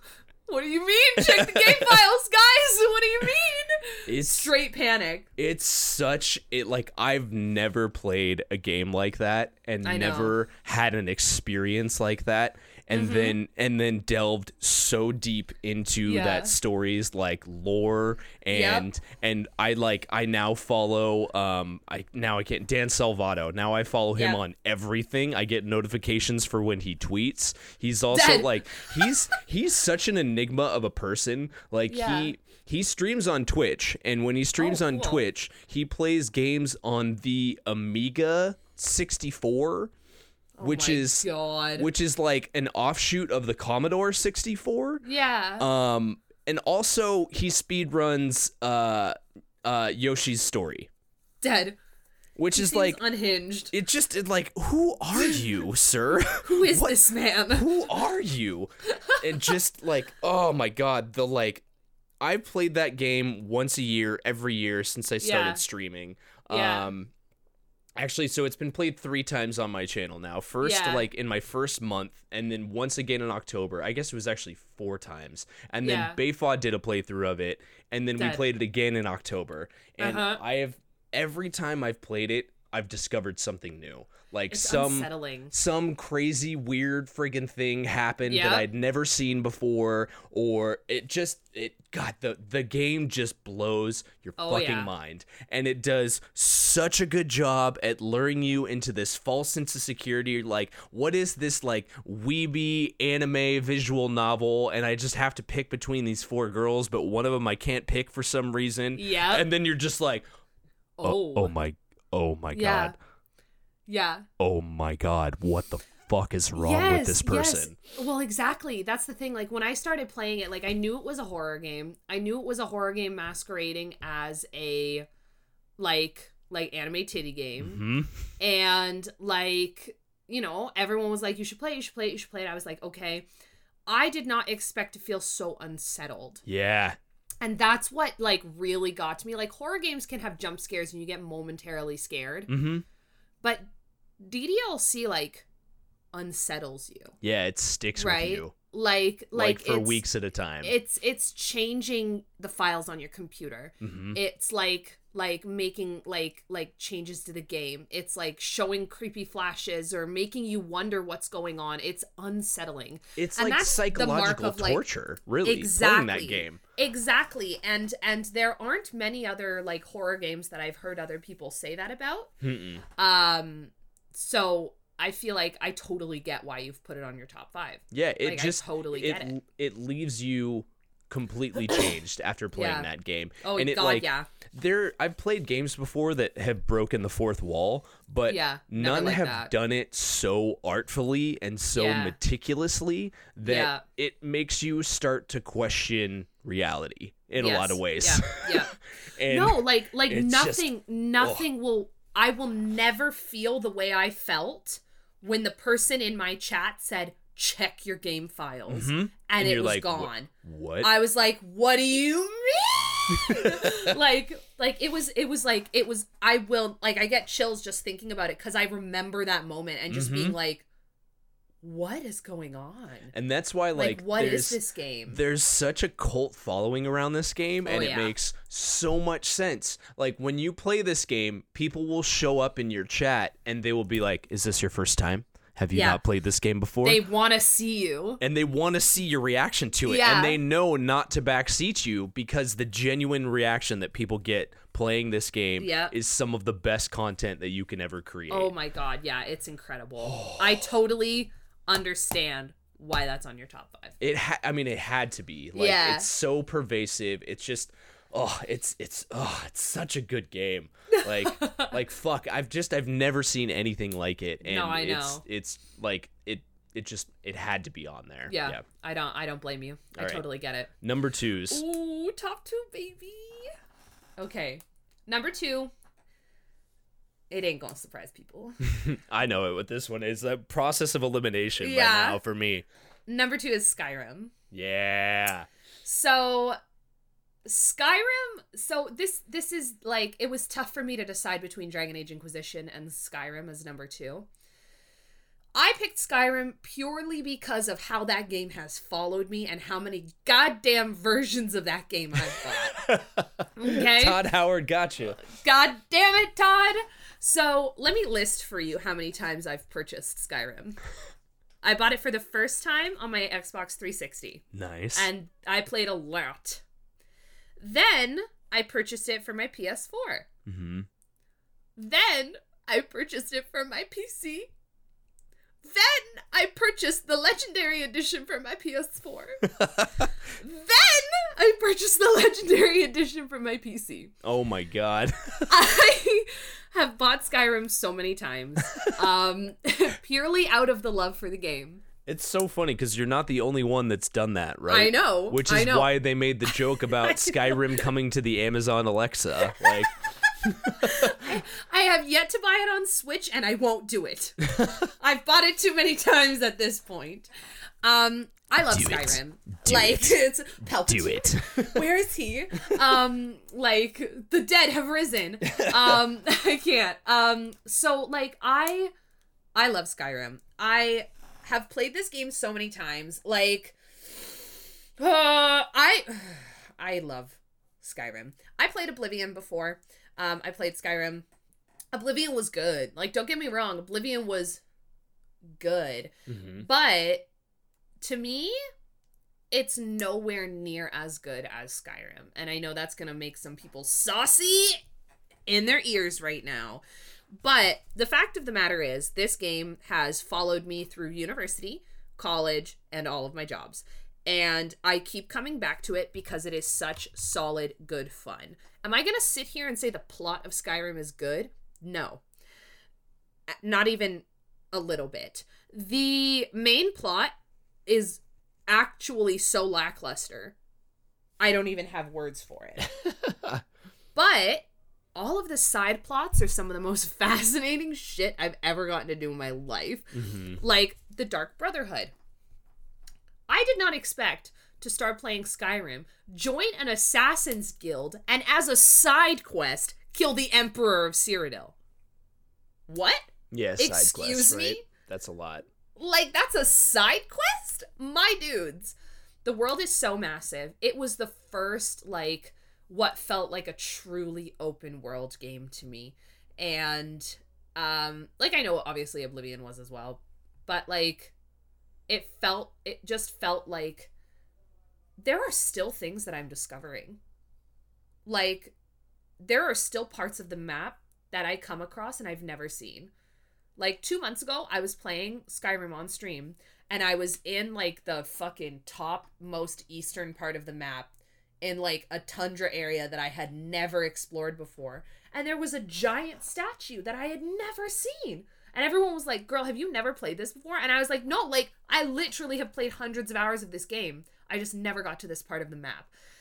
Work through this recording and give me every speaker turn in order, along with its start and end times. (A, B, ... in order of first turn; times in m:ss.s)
0:00.5-0:05.3 A
0:01.2-0:02.0 B
0:04.1-0:04.5 B
0:05.4-0:39.9 B
0:09.8-0:10.3 A
0:12.9-0:13.4 A
0:16.1-0:16.6 A
0:18.5-0:18.9 A
0:28.1-0:29.1 A
0:31.9-0:32.3 A
0:34.6-0:35.2 A
0:40.6-0:41.9 A
0:40.6-0:45.0 B
0:45.0-0:45.7 A
0:45.6-0:50.9 B
0:51.4-0:51.8 A
0:52.4-0:53.0 B
0:52.5-0:53.7 A
0:53.7-1:01.6 B
0:55.2-0:55.5 A
0:56.4-0:57.8 A
0:58.9-0:59.5 A
1:02.2-1:07.1 B
1:05.2-1:05.6 A
1:06.5-1:06.9 A
1:08.0-1:50.2 B
1:10.6-1:11.1 A
1:15.8-1:16.2 A
1:18.2-1:18.4 A
1:20.0-1:20.4 A
1:24.5-1:25.5 A
1:28.2-1:28.6 A
1:34.4-1:34.9 A
1:48.9-1:49.4 A
1:51.0-1:51.5 A
1:51.0-1:53.0 B
1:52.5-1:52.9 A
1:53.9-1:54.3 A
1:54.4-1:57.8 B
1:56.6-2:05.1 A
2:05.8-2:07.8 A
2:07.6-2:08.2 B
2:08.4-2:13.3 A
2:13.9-2:16.4 A
2:16.4-2:17.0 B
2:17.4-2:22.5 A
2:22.5-2:22.8 B
2:24.2-2:25.5 A
2:26.1-2:27.1 A
2:27.2-2:28.5 B
2:28.0-2:30.0 A
2:29.3-2:30.7 B
2:30.6-2:44.8 A
2:33.8-2:34.2 B
2:43.2-2:46.6 B
2:45.4-2:52.3 A
2:52.4-2:52.8 B
2:53.0-2:59.4 A
2:57.9-3:21.4 B
3:02.5-3:02.9 A
3:03.4-3:04.3 A
3:08.3-3:09.5 A
3:11.7-3:12.1 A
3:13.4-3:13.8 A
3:17.4-3:30.3 A
3:28.7-3:30.9 B
3:30.8-3:40.6 A
3:33.1-3:34.0 B
3:39.9-3:40.4 B
3:41.6-3:43.1 A
3:43.1-3:57.0 B
3:43.7-3:45.2 A
3:47.6-3:48.1 A
3:55.7-3:56.0 A
3:56.8-3:58.2 A
3:58.2-4:08.5 B
3:59.8-4:00.4 A
4:05.6-4:05.9 A
4:08.3-4:14.0 A
4:10.0-4:10.7 B
4:14.0-4:28.6 B
4:15.6-4:16.1 A
4:20.9-4:21.7 A
4:24.4-4:25.2 A
4:28.3-4:30.7 A
4:30.0-4:30.2 B
4:30.8-4:31.6 B
4:31.5-4:33.5 A
4:34.2-4:35.7 A
4:37.3-4:38.6 A
4:38.6-4:42.6 B
4:41.6-4:42.2 A
4:43.1-4:44.3 A
4:44.5-4:45.5 B
4:45.8-4:46.6 A
4:47.4-4:54.3 A
4:55.6-5:03.0 A
5:02.3-5:05.2 B
5:03.6-5:04.2 A
5:05.2-5:10.8 A
5:11.6-5:16.6 A
5:14.5-5:15.1 B
5:17.6-5:20.3 A
5:20.4-5:20.9 B
5:21.8-5:24.5 A
5:25.6-5:29.4 A
5:29.4-5:30.1 B
5:30.4-5:34.1 A
5:34.2-5:35.6 B
5:35.5-5:41.8 A
5:38.7-5:39.0 B
5:42.1-5:51.4 B
5:44.7-5:45.9 A
5:46.5-5:47.9 A
5:50.2-5:57.3 A
5:54.5-5:54.8 B
5:57.8-6:08.9 A
5:58.7-6:00.2 B
6:00.9-6:01.9 B
6:05.5-6:06.0 B
6:09.6-6:13.8 A
6:15.0-6:21.2 A
6:21.9-6:24.6 A
6:25.6-6:27.3 A
6:26.3-6:26.6 B
6:28.0-6:28.6 A
6:29.5-6:34.8 A
6:35.5-6:36.8 A
6:37.4-6:52.2 A
6:53.6-6:57.3 A
6:57.9-7:00.6 A
7:01.4-7:03.0 A
7:03.2-7:03.6 B
7:04.1-7:12.1 A
7:10.1-7:10.6 B
7:13.5-7:21.7 A
7:22.9-7:24.8 A
7:23.5-7:25.7 B
7:26.0-7:41.3 A
7:42.1-7:44.1 A
7:45.2-7:47.2 A
7:48.3-7:48.7 A
7:49.4-7:53.1 A
7:53.8-8:16.1 A